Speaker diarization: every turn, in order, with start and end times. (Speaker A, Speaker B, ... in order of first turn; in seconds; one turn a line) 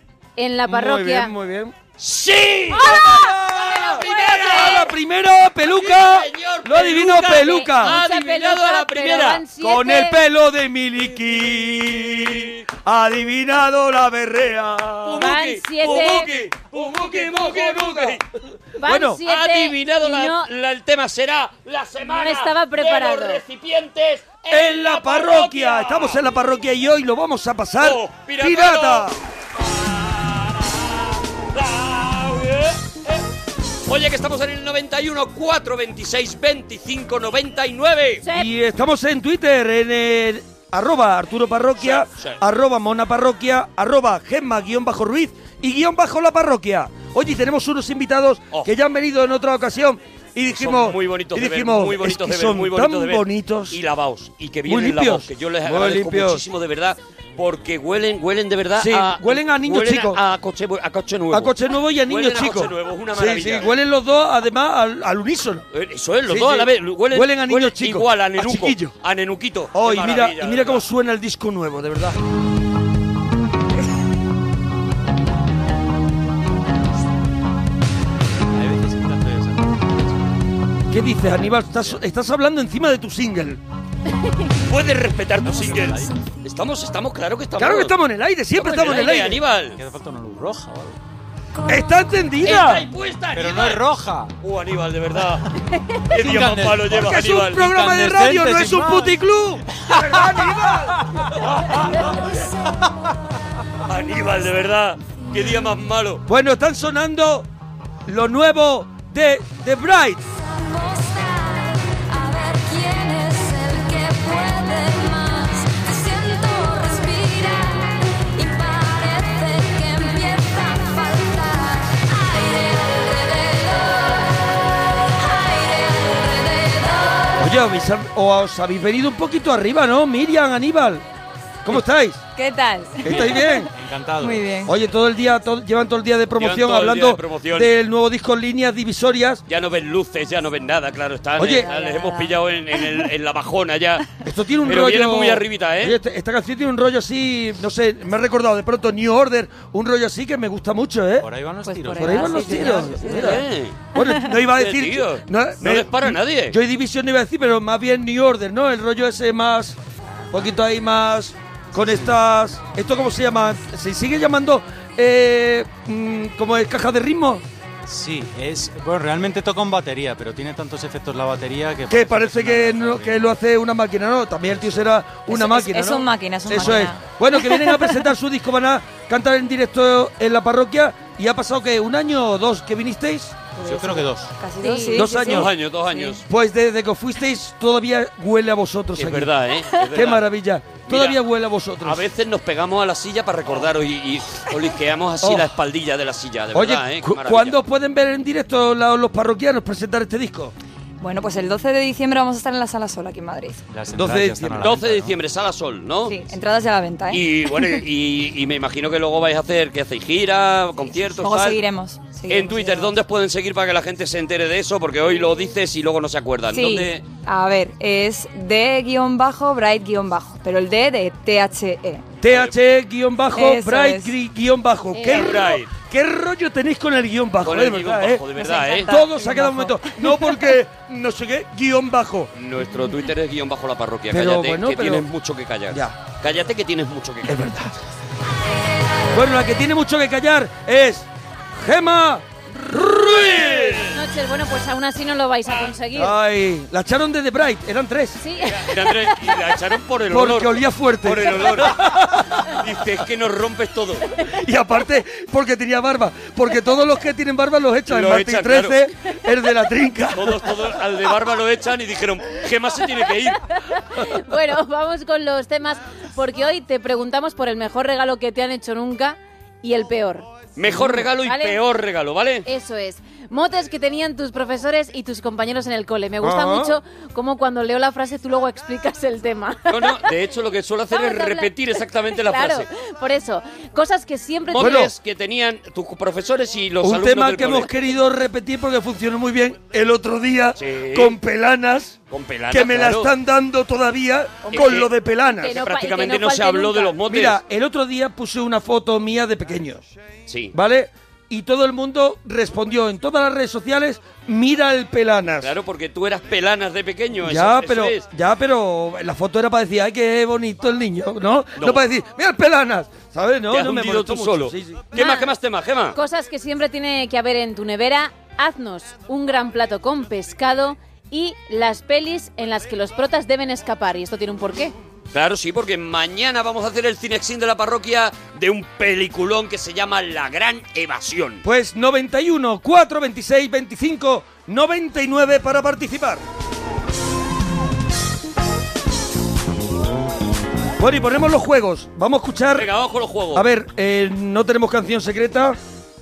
Speaker A: 0.4-1.3
Speaker B: 0.7-1.7
Speaker C: 2.0-4.9
Speaker A: 2.8-3.3
Speaker B: 2.8-8.0
Speaker A: 3.9-4.8
Speaker C: 5.6-9.4
Speaker A: 7.4-10.2
Speaker B: 9.6-18.2
Speaker C: 12.1-12.6
Speaker C: 15.0-18.2
Speaker A: 15.2-16.3
Speaker A: 18.8-20.4
Speaker B: 18.8-19.2
Speaker C: 19.2-26.2
Speaker A: 22.0-23.4
Speaker B: 24.5-29.2
Speaker C: 27.8-29.1
Speaker C: 29.6-33.2
Speaker C: 33.9-38.2
Speaker B: 38.3-53.8
Speaker C: 41.8-42.4
Speaker C: 50.5-63.7
Speaker B: 54.7-56.4
Speaker B: 58.8-60.2
Speaker B: 61.3-65.6
Speaker C: 65.7-70.8
Speaker B: 66.3-68.9
Speaker B: 69.7-72.2
Speaker D: 78.5-80.2
Speaker B: 80.9-83.6
Speaker D: 81.3-82.0
Speaker C: 84.7-87.9
Speaker D: 85.4-86.3
Speaker B: 87.6-89.4
Speaker C: 88.6-89.8
Speaker D: 89.8-91.0
Speaker B: 91.7-92.8
Speaker C: 92.4-93.8
Speaker D: 93.3-94.3
Speaker C: 94.4-95.5
Speaker C: 96.1-97.7
Speaker D: 96.2-96.9
Speaker B: 96.8-101.0
Speaker D: 97.5-99.2
Speaker D: 99.7-101.3
Speaker C: 103.9-106.2
Speaker B: 106.3-107.5
Speaker B: 108.0-110.2
Speaker E: 110.3-124.3
Speaker E: 125.2-127.4
Speaker B: 127.4-131.0
Speaker B: 131.6-132.2
Speaker F: 132.3-134.7
Speaker B: 133.0-133.7
Speaker D: 133.1-134.7
Speaker B: 134.7-139.4
Speaker C: 136.4-137.7
Speaker C: 139.5-144.1
Speaker B: 141.4-141.7
Speaker F: 141.6-142.4
Speaker B: 144.2-151.3
Speaker C: 144.6-146.0
Speaker D: 151.2-153.0
Speaker F: 151.6-153.4
Speaker B: 151.9-159.8
Speaker C: 152.6-153.8
Speaker C: 154.5-156.5
Speaker B: 160.3-167.4
Speaker D: 161.8-162.2
Speaker D: 167.8-173.3
Speaker B: 171.9-183.4
Speaker D: 174.5-174.9
Speaker F: 175.3-177.9
Speaker D: 176.5-176.9
Speaker F: 183.5-186.2
Speaker D: 183.6-184.3
Speaker A: 184.6-185.0
Speaker B: 184.9-185.5
Speaker C: 185.2-186.2
Speaker B: 186.3-189.3
Speaker C: 188.9-190.2
Speaker B: 189.9-192.0
Speaker C: 190.8-191.2
Speaker C: 191.8-197.5
Speaker B: 195.2-195.5
Speaker B: 196.5-200.5
Speaker F: 201.0-203.6
Speaker D: 203.7-205.2
Speaker B: 203.9-204.7
Speaker C: 204.6-206.2
Speaker F: 206.0-207.8
Speaker C: 207.1-211.6
Speaker F: 210.8-212.9
Speaker C: 212.3-217.0
Speaker F: 216.5-222.0
Speaker B: 222.2-228.3
Speaker C: 222.3-222.5
Speaker F: 223.3-224.1
Speaker A: 224.9-225.5
Speaker C: 225.1-225.7
Speaker C: 227.4-229.0
Speaker F: 228.3-230.3
Speaker B: 228.8-232.3
Speaker C: 232.3-237.5
Speaker B: 234.1-235.1
Speaker B: 235.7-235.9
Speaker B: 237.2-237.7
Speaker B: 239.1-243.8
Speaker C: 243.0-243.9
Speaker A: 243.9-246.1
Speaker B: 245.9-248.2
Speaker A: 248.2-249.1
Speaker C: 248.5-254.1
Speaker B: 250.1-251.8
Speaker B: 254.4-260.5
Speaker C: 257.9-258.8
Speaker C: 260.1-263.4
Speaker A: 263.6-270.3
Speaker C: 270.6-272.4
Speaker B: 270.6-271.1
Speaker A: 271.2-271.6
Speaker A: 272.4-280.1
Speaker B: 276.2-276.8
Speaker C: 279.7-282.7
Speaker A: 280.9-281.5
Speaker A: 282.1-284.8
Speaker C: 284.5-287.7
Speaker B: 284.5-284.9
Speaker B: 286.8-292.0
Speaker C: 290.6-291.1
Speaker C: 292.1-293.1
Speaker B: 292.5-295.6
Speaker A: 294.4-294.7
Speaker C: 294.5-294.9
Speaker A: 295.4-297.0
Speaker C: 295.5-297.4
Speaker B: 297.1-299.8
Speaker C: 300.3-300.5
Speaker B: 300.5-305.5
Speaker C: 305.4-308.1
Speaker B: 307.2-315.0
Speaker C: 311.6-311.8
Speaker C: 313.5-316.0
Speaker A: 314.9-315.3
Speaker A: 315.9-324.7
Speaker C: 325.1-331.4
Speaker B: 331.4-336.2
Speaker B: 340.8-342.7
Speaker C: 342.5-343.5
Speaker B: 343.3-345.6